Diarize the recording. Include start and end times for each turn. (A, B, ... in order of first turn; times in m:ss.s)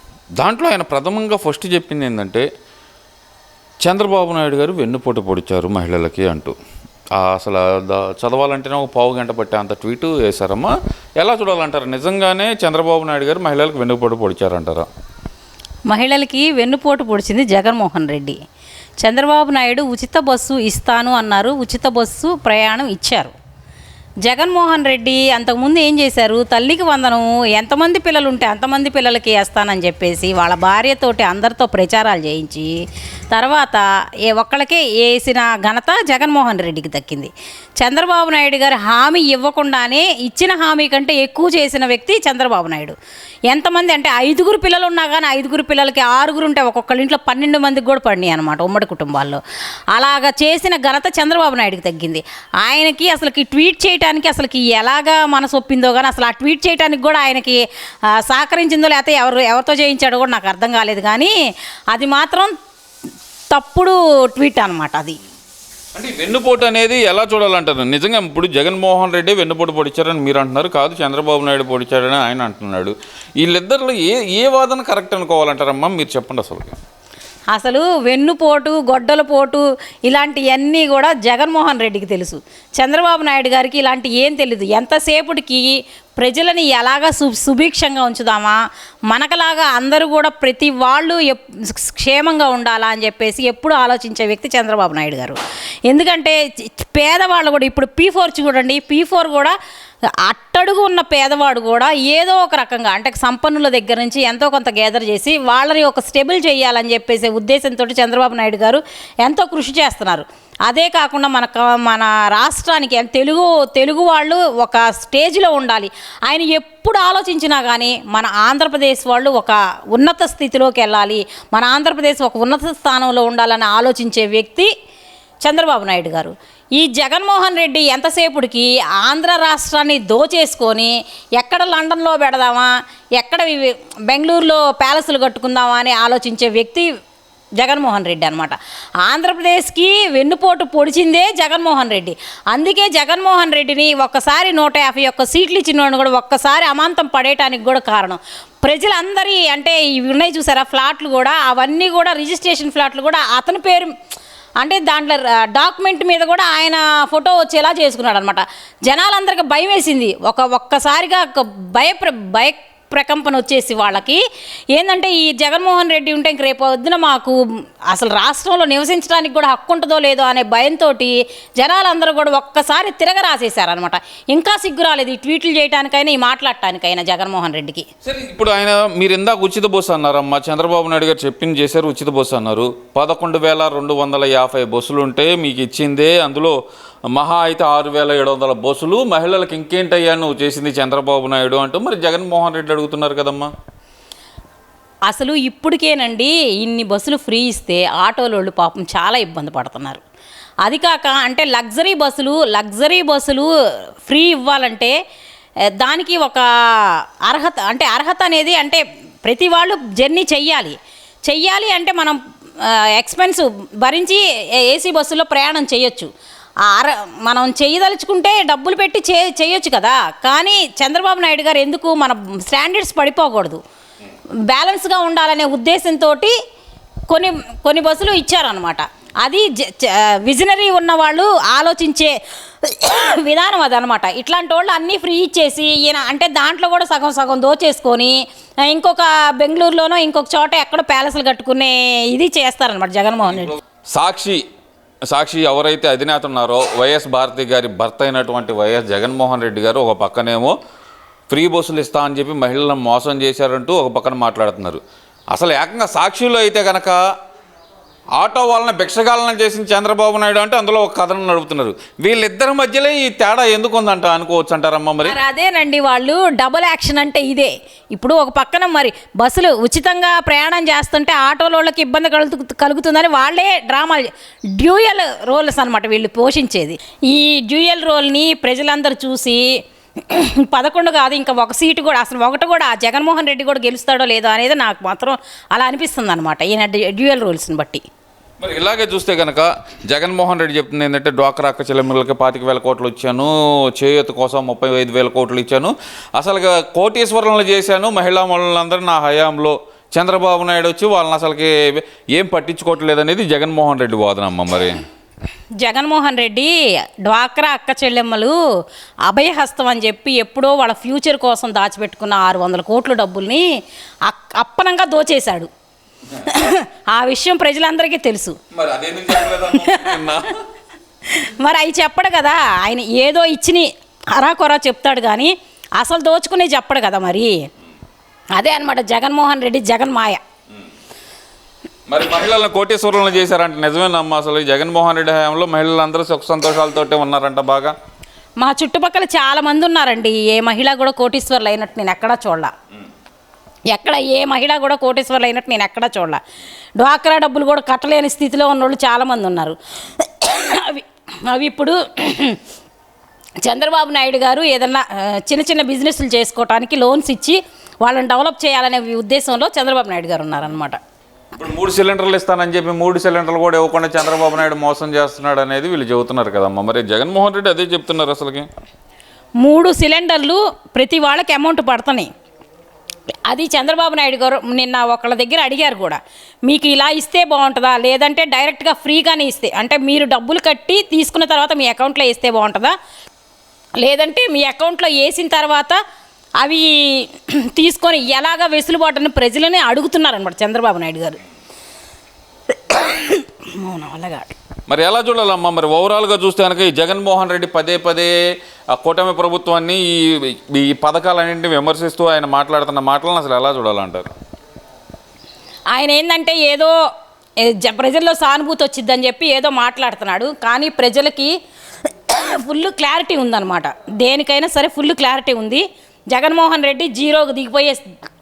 0:00.4-0:02.5 A
0:03.8-0:06.5 A
0:07.1-0:14.9 A
0:15.9-0:18.4 B
0:19.0-0:23.3 B
0:24.2-0:32.8 B
0:33.3-0:43.0 B
0:43.5-0:49.4 B
0:49.9-0:57.6 B
0:58.2-1:01.3 B
1:01.9-1:02.5 B
1:03.5-1:05.2 B
1:06.0-1:16.8 A
1:17.5-1:28.6 B
1:29.1-1:39.6 B
1:40.2-2:04.7 B
2:05.4-2:16.9 B
2:17.6-2:33.9 B
2:34.6-2:47.4 B
2:47.9-2:57.8 B
2:58.0-3:06.6 A
3:07.1-3:13.5 A
3:15.1-3:20.0 B
3:20.6-3:23.5 B
3:24.1-3:24.9 B
3:25.8-3:30.8 B
3:31.3-3:36.1 B
3:36.7-3:43.6 B
3:44.5-3:46.3 B
3:47.1-4:03.5 B
4:03.9-4:04.4 A
4:05.1-4:10.5 A
4:11.3-4:14.8 A
4:15.3-4:17.0 A
4:18.2-4:25.2 A
4:25.0-4:34.1 B
4:34.6-4:39.5 B
4:40.0-4:47.8 B
4:48.4-5:04.8 A
5:05.6-5:08.4 B
5:09.1-5:13.5 B
5:14.0-5:15.5 B
5:16.2-5:18.4 B
5:18.5-5:20.4 A
5:19.1-5:20.2 B
5:21.0-5:27.5 B
5:28.4-5:30.2 B
5:31.9-5:37.7 A
5:38.4-5:42.5 B
5:43.7-5:46.2 B
5:46.8-5:52.4 B
5:53.4-6:00.8 B
6:01.4-6:08.5 A
6:09.4-6:12.1 B
6:13.3-6:22.8 B
6:23.8-6:25.8 B
6:26.4-6:31.2 B
6:32.5-6:34.3 B
6:34.7-6:38.1 A
6:38.7-6:44.1 A
6:45.7-6:46.7 B
6:47.4-6:51.3 B
6:51.9-6:57.9 B